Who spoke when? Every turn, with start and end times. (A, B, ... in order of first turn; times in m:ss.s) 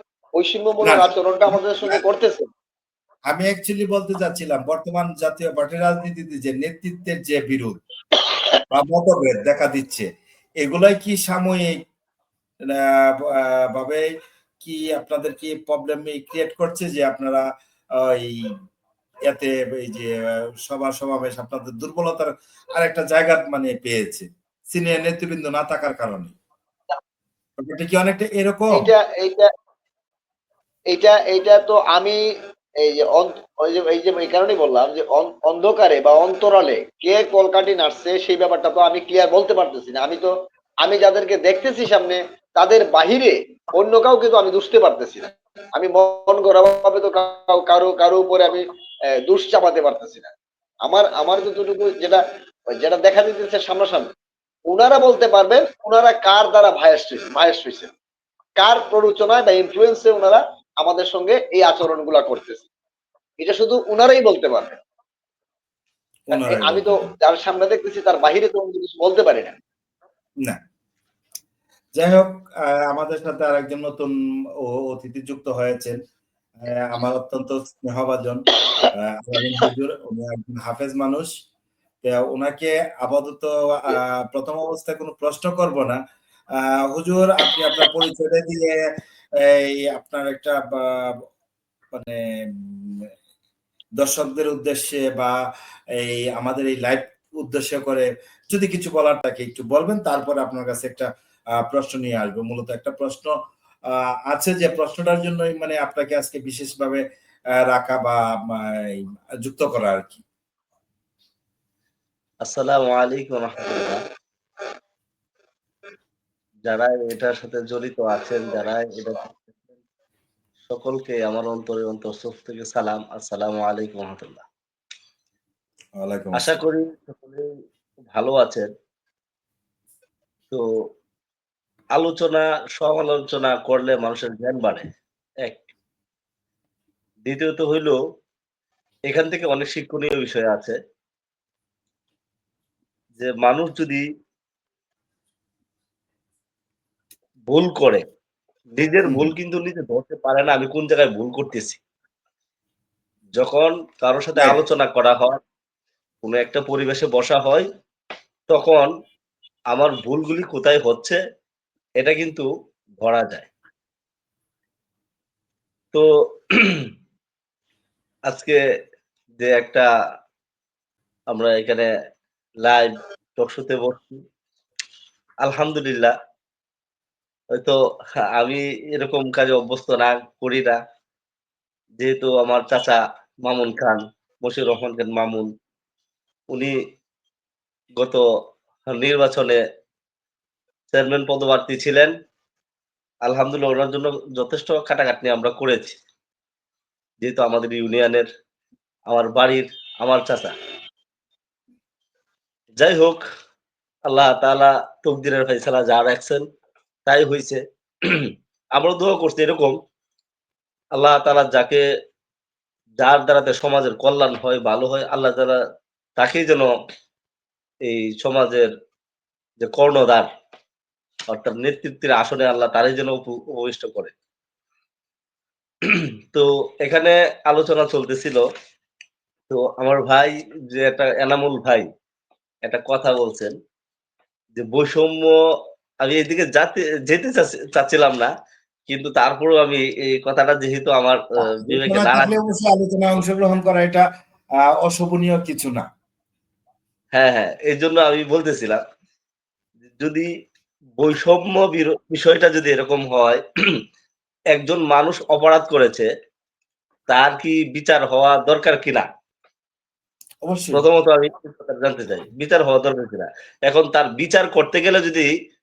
0:00.4-0:02.4 A
0:00.8-0:02.0 B
0:03.3-0:07.8 B
0:08.7-0:10.0 B
0:10.6-0:11.8 B
0:13.7-0:14.0 B
0:14.6-0:17.4 B
0:18.0-0:18.3 B
0:19.3-0:20.1 B
0:20.7-0:26.3 B
0:27.6-0:28.9 B
0:28.7-0:29.5 A
0:30.9-0:32.2 A
0:32.8-0:40.3 A
0:40.8-0:48.6 A
0:49.3-0:50.3 A
0:50.8-0:52.2 A
0:52.7-0:54.1 A
0:54.7-0:57.9 A
0:58.6-1:02.6 A
1:03.4-1:04.8 A
1:06.3-1:07.0 B
1:06.3-1:09.5 A
1:12.0-1:12.3 B
1:12.9-1:14.1 B
1:14.6-1:16.0 B
1:16.6-1:18.4 B
1:19.2-1:21.3 B
1:22.0-1:26.0 B
1:26.9-1:28.7 B
1:29.4-1:31.1 B
1:31.9-1:32.2 B
1:34.0-1:35.3 B
1:36.0-1:41.1 B
1:41.7-1:43.3 B
1:44.3-1:47.0 B
1:47.7-1:48.9 B
1:49.4-1:50.2 B
1:52.4-1:54.0 C
1:56.7-1:59.4 C
2:00.7-2:04.4 C
2:06.0-2:06.6 B
2:06.3-2:07.4 C
2:08.1-2:08.7 C
2:12.0-2:14.8 C
2:17.2-2:18.0 C
2:19.1-2:20.7 C
2:23.2-2:24.0 C
2:27.5-2:28.0 C
2:28.8-2:31.8 C
2:29.0-2:29.3 B
2:33.4-2:35.4 C
2:36.2-2:37.6 C
2:38.5-2:38.9 C
2:39.7-2:41.2 C
2:42.0-2:42.5 C
2:43.0-2:43.5 C
2:45.9-2:46.9 C
2:48.3-2:48.6 C
2:49.4-2:49.8 C
2:51.3-2:51.9 C
2:52.6-2:54.2 C
2:55.4-2:56.1 C
2:58.3-3:00.8 C
3:02.0-3:05.5 C
3:08.9-3:09.6 C
3:10.9-3:12.1 C
3:13.2-3:16.0 C
3:17.2-3:18.2 C
3:19.1-3:20.5 C
3:22.8-3:23.2 C
3:24.1-3:26.4 C
3:27.0-3:29.8 C
3:31.0-3:31.8 C
3:33.0-3:35.6 C
3:36.2-3:36.7 C
3:37.9-3:38.7 C
3:39.6-3:40.3 C
3:41.3-3:44.1 C
3:45.8-3:48.4 C
3:49.5-3:51.8 C
3:52.7-3:53.5 C
3:54.6-3:55.3 C
3:56.0-3:58.3 C
3:58.9-4:02.4 C
4:01.5-4:04.0 B
4:04.8-4:05.8 B
4:07.1-4:08.8 C
4:10.0-4:10.3 C
4:11.0-4:13.4 C
4:14.5-4:16.1 C
4:17.1-4:19.0 C
4:20.4-4:20.8 B
4:20.7-4:25.3 C